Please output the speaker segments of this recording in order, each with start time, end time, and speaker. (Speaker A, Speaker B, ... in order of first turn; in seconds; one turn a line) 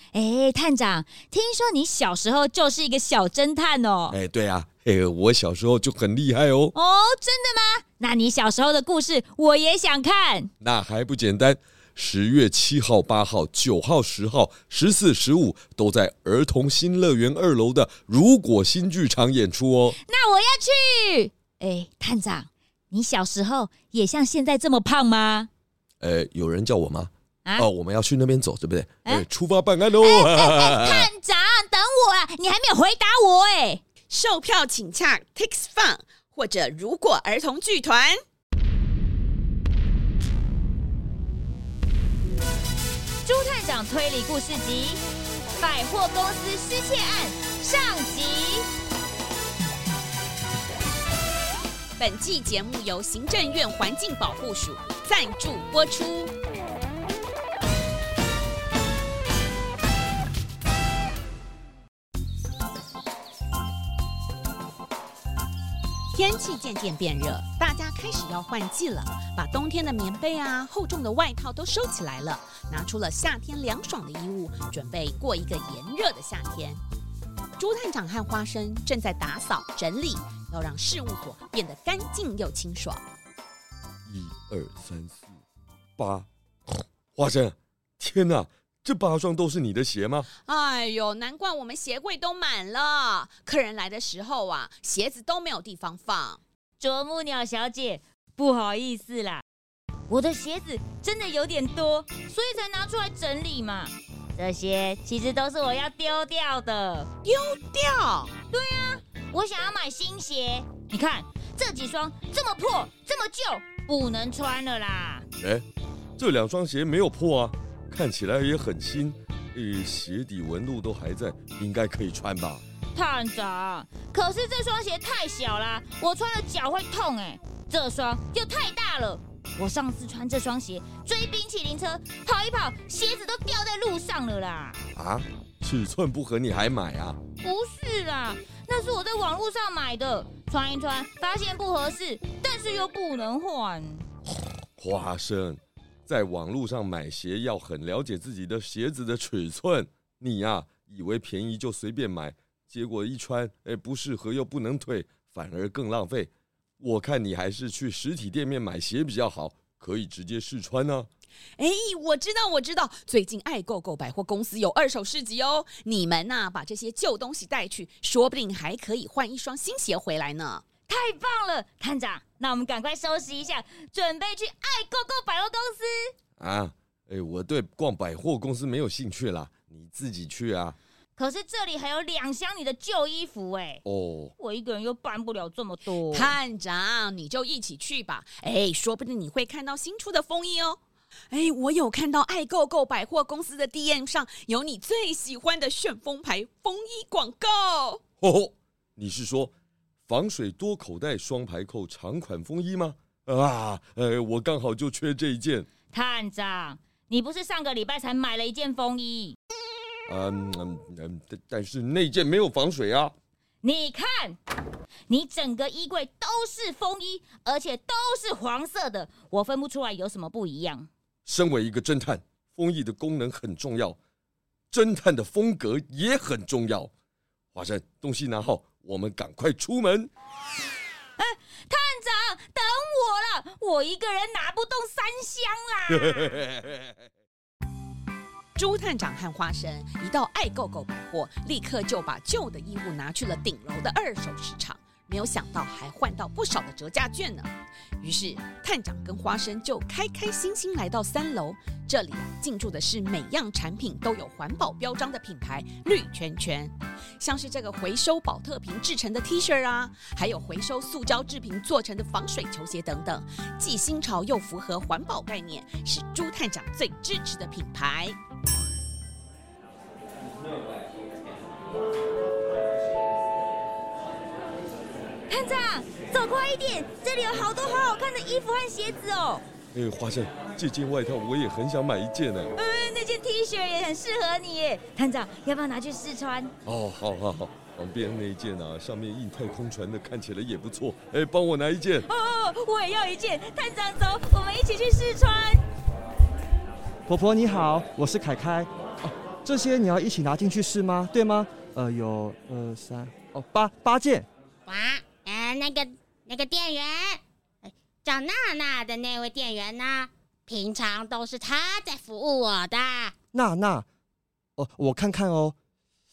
Speaker A: 0.1-4.2
Speaker B: 4.1-6.7
Speaker A: 6.8-10.5
Speaker B: 10.6-20.0
Speaker A: 20.0-25.5
Speaker B: 26.0-31.1
Speaker A: 30.0-33.8
Speaker C: 34.1-38.2
Speaker A: 43.2-45.0
Speaker A: 45.6-48.7
Speaker C: 52.0-56.3
Speaker C: 66.1-76.8
Speaker C: 77.6-83.0
Speaker B: 84.1-85.3
Speaker B: 86.0-90.3
Speaker C: 90.5-96.4
Speaker A: 96.8-99.4
Speaker A: 100.1-107.1
Speaker A: 108.5-115.2
Speaker B: 115.4-115.7
Speaker B: 116.2-122.6
Speaker A: 122.9-134.8
Speaker B: 134.9-137.2
Speaker A: 137.4-144.1
Speaker B: 144.8-161.1
Speaker C: 161.6-170.6
Speaker A: 170.9-176.1
Speaker B: 176.4-180.8
Speaker A: 181.2-183.8
Speaker B: 183.8-184.3
Speaker A: 184.4-186.4
Speaker C: 186.1-190.8
Speaker C: 191.3-198.0
Speaker B: 198.2-199.5
Speaker B: 200.1-205.7
Speaker A: 205.9-209.4
Speaker B: 210.1-213.2
Speaker A: 213.6-214.4
Speaker A: 215.1-220.9
Speaker B: 221.2-224.0
Speaker B: 224.7-226.9
Speaker B: 227.5-230.1
Speaker A: 231.2-236.4
Speaker B: 235.9-237.0
Speaker C: 238.6-247.5
Speaker C: 248.0-268.2
Speaker A: 275.3-279.4
Speaker B: 279.7-282.5
Speaker A: 282.6-286.5
Speaker B: 286.6-292.1
Speaker A: 292.1-295.6
Speaker D: 297.1-304.3
Speaker E: 304.7-313.1
Speaker D: 313.3-313.9
Speaker D: 314.6-315.6